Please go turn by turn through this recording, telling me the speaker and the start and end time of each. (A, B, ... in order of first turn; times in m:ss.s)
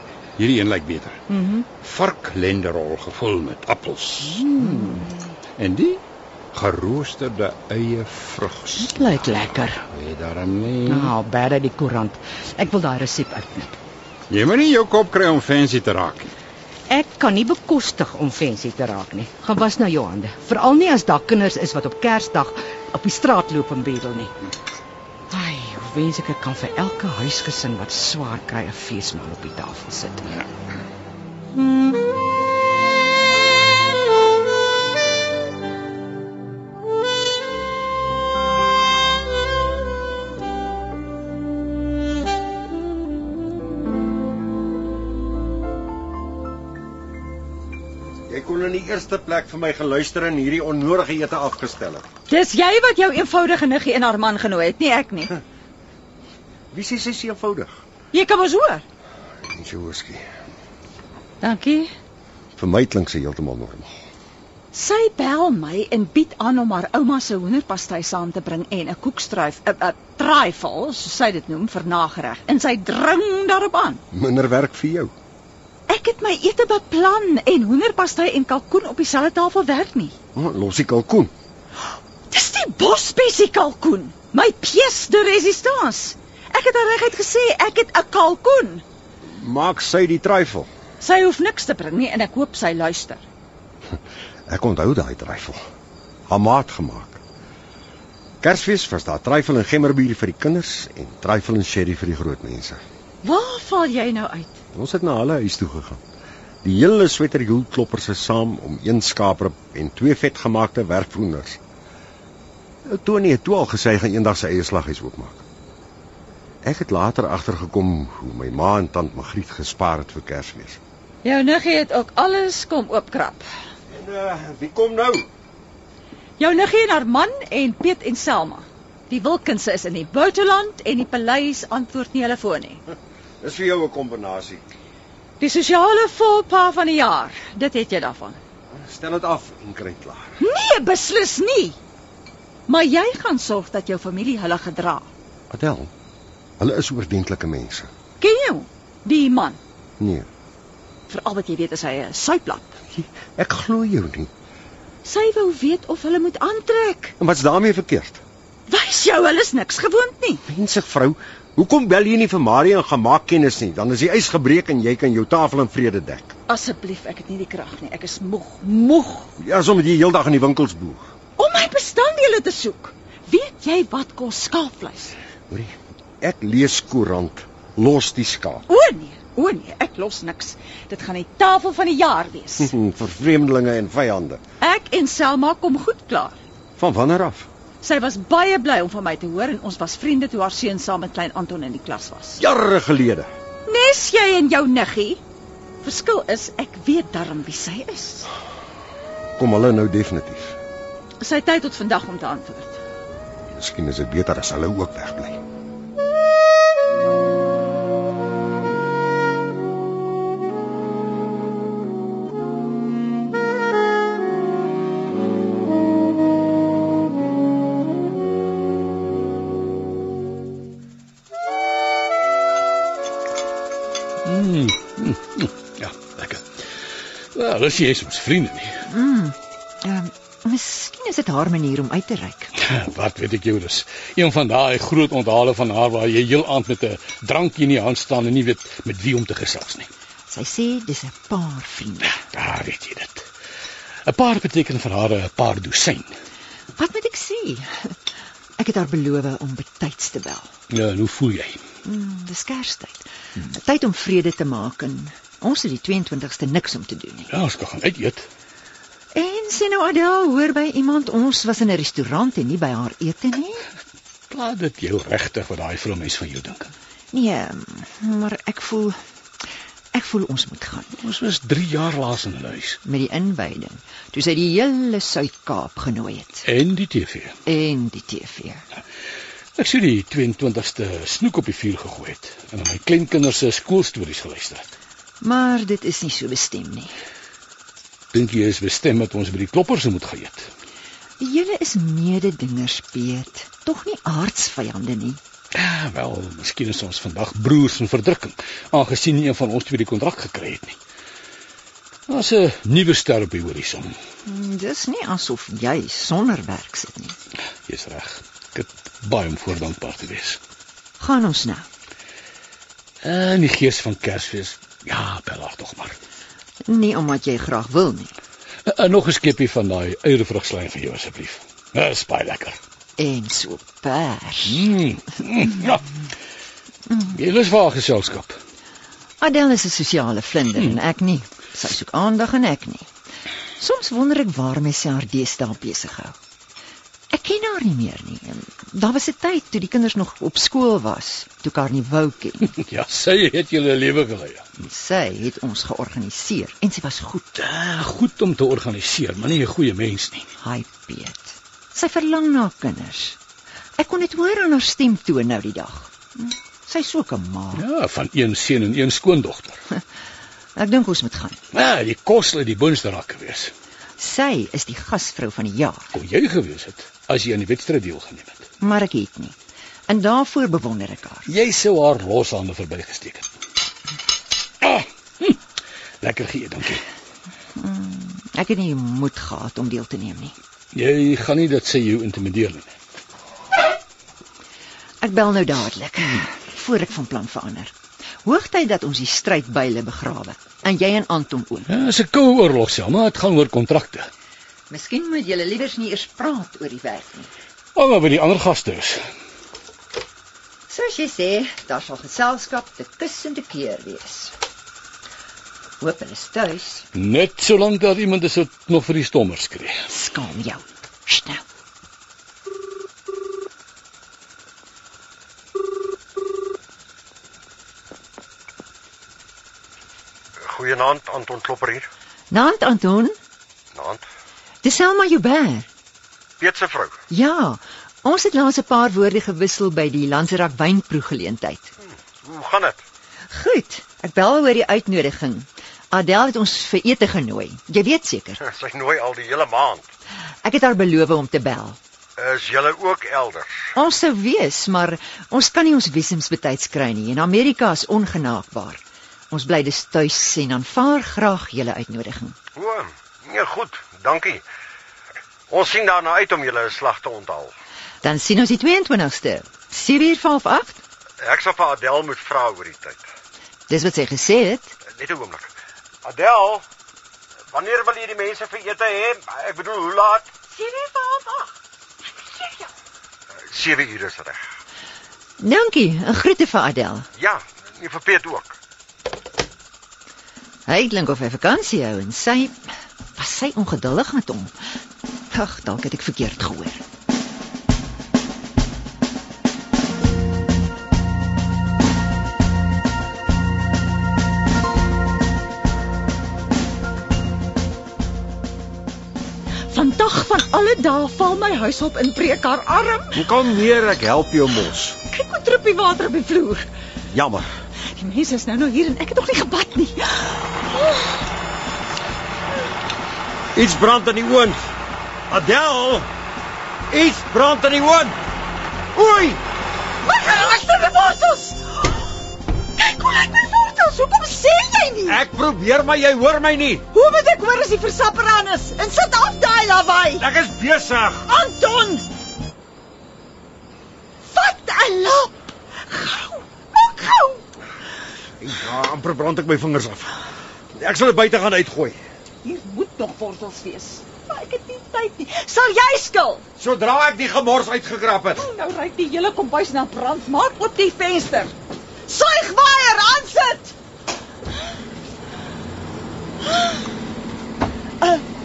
0:00.4-0:01.2 A
0:01.3-0:01.7 B
0:01.8-0:04.9 A
0:04.4-0:05.2 B
0:05.6-0:06.0 A
0:06.5-0:09.0 A
0:08.8-0:09.8 B
0:09.9-0:11.1 A
0:10.8-0:13.8 B
0:14.3-0:16.3 A
0:16.9-0:24.3 B
0:25.3-0:30.4 B
0:48.3-0:52.1 C
0:52.3-0:55.3 D
0:56.7-0:57.8 C
0:58.1-0:58.8 D
0:59.4-1:00.2 C
1:01.4-1:01.9 D
1:02.6-1:03.9 C
1:04.7-1:14.0 D
1:14.1-1:15.1 C
1:15.9-1:20.1 D
1:20.3-1:21.3 C
1:22.3-1:28.8 D
1:29.3-1:30.7 C
1:31.0-1:33.2 D
1:34.5-1:35.6 C
1:36.3-1:37.2 C
1:38.4-1:42.8 C
1:43.2-1:44.6 D
1:44.7-1:46.0 C
1:46.6-1:51.6 C
1:52.8-1:55.4 C
1:56.6-2:00.8 C
2:01.2-2:03.4 D
2:03.9-2:05.3 C
2:06.4-2:12.8 D
2:13.4-2:14.6 C
2:15.4-2:18.4 D
2:18.7-2:20.3 C
2:20.4-2:21.8 D
2:22.7-2:25.0 D
2:25.5-2:25.9 C
2:26.6-2:27.9 C
2:28.2-2:29.6 D
2:30.0-2:30.3 C
2:31.1-2:32.7 D
2:32.9-2:34.3 C
2:35.0-2:37.1 D
2:37.2-2:38.2 C
2:38.7-2:40.4 D
2:40.4-2:46.3 C
2:46.5-2:49.3 D
2:49.4-2:51.0 C
2:51.4-2:55.1 D
2:55.5-2:58.6 C
2:58.7-3:02.7 D
3:02.6-3:04.4 C
3:04.6-3:06.4 D
3:06.8-3:07.5 C
3:07.8-3:12.4 D
3:12.4-3:13.3 C
3:13.7-3:15.2 D
3:15.8-3:18.3 D
3:19.4-3:20.6 C
3:21.2-3:22.8 D
3:23.5-3:25.4 C
3:44.2-3:46.7 E
3:47.3-3:48.8 E
3:48.9-3:52.5 F
3:52.6-3:59.9 E
4:00.3-4:02.2 F
4:02.1-4:03.2 E
4:04.1-4:06.1 E
4:06.8-4:07.9 F
4:08.6-4:10.5 F
4:10.7-4:11.6 E
4:11.8-4:17.3 F
4:17.3-4:18.3 E
4:19.1-4:23.6 F
4:24.3-4:26.7 E
4:27.1-4:29.0 F
4:29.9-4:30.9 F
4:31.0-4:32.8 E
4:32.8-4:36.4 F
4:36.4-4:37.3 E
4:37.4-4:38.6 F
4:39.6-4:44.7 E
4:45.2-4:46.9 F
4:48.1-4:50.5 E
4:51.2-4:55.2 F
4:55.5-5:00.8 E
5:02.1-5:03.9 E
5:04.3-5:07.1 F
5:07.7-5:10.4 E
5:11.0-5:11.6 F
5:13.0-5:16.0 E
5:16.6-5:18.1 F
5:18.6-5:22.6 E
5:23.0-5:24.7 F
5:24.5-5:25.9 E
5:27.0-5:28.4 E
5:29.2-5:32.9 F
5:33.6-5:36.2 F
5:37.1-5:42.5 F
5:42.5-5:44.5 E
5:44.6-5:47.4 F
5:47.4-5:50.3 E
5:50.4-5:53.2 F
5:53.8-5:57.6 F
5:57.5-5:59.6 E
6:00.6-6:01.4 F
6:01.5-6:03.5 E
6:04.0-6:05.9 F
6:05.9-6:08.4 E
6:08.6-6:09.4 F
6:09.9-6:11.3 F
6:11.3-6:13.2 E
6:14.6-6:15.4 E
6:16.0-6:16.8 E
6:17.6-6:20.3 F
6:20.7-6:22.7 E
6:25.0-6:27.7 F
6:28.2-6:31.7 F
6:31.7-6:34.1 E
6:34.7-6:37.3 F
6:37.7-6:39.0 E
6:40.7-6:44.3 F
6:45.8-6:46.8 F
6:46.9-6:49.8 E
6:49.9-6:51.4 F
7:00.4-7:01.9 C
7:02.3-7:03.1 F
7:03.7-7:04.0 C
7:04.6-7:05.7 F
7:06.4-7:07.0 C
7:07.1-7:11.7 F
7:12.2-7:12.8 C
7:13.3-7:18.4 F
7:18.4-7:19.9 C
7:20.4-7:21.8 F
7:22.2-7:23.6 C
7:23.7-7:32.4 F
7:32.5-7:34.4 C
7:35.5-7:37.5 C
7:38.0-7:40.8 F
7:41.2-7:43.0 C
7:43.7-7:44.8 F
7:44.8-7:45.5 C
7:46.0-7:46.6 C
7:47.5-7:50.3 C
7:50.5-7:51.5 D
7:53.5-7:54.5 C
7:55.4-7:57.1 F
7:57.2-7:58.6 C
8:00.7-8:04.5 F
8:05.3-8:06.8 F
8:19.7-8:23.3 D
8:23.1-8:25.0 C
8:25.1-8:26.6 D
8:27.1-8:27.5 C
8:27.9-8:31.1 D
8:33.5-8:34.6 C
8:35.3-8:36.1 C
8:36.9-8:38.2 C
8:38.9-8:39.4 C
8:40.0-8:42.0 D
8:42.8-8:45.2 D
8:45.0-8:46.8 C
8:46.9-8:50.2 D
8:50.2-8:51.3 C
8:51.3-8:52.0 D
8:54.3-8:55.3 D
8:55.9-8:57.4 D
8:58.4-9:00.1 C
9:00.7-9:02.0 C
9:02.4-9:06.4 D
9:06.6-9:08.4 C
9:08.4-9:11.5 D
9:12.1-9:13.7 D
9:16.4-9:16.8 D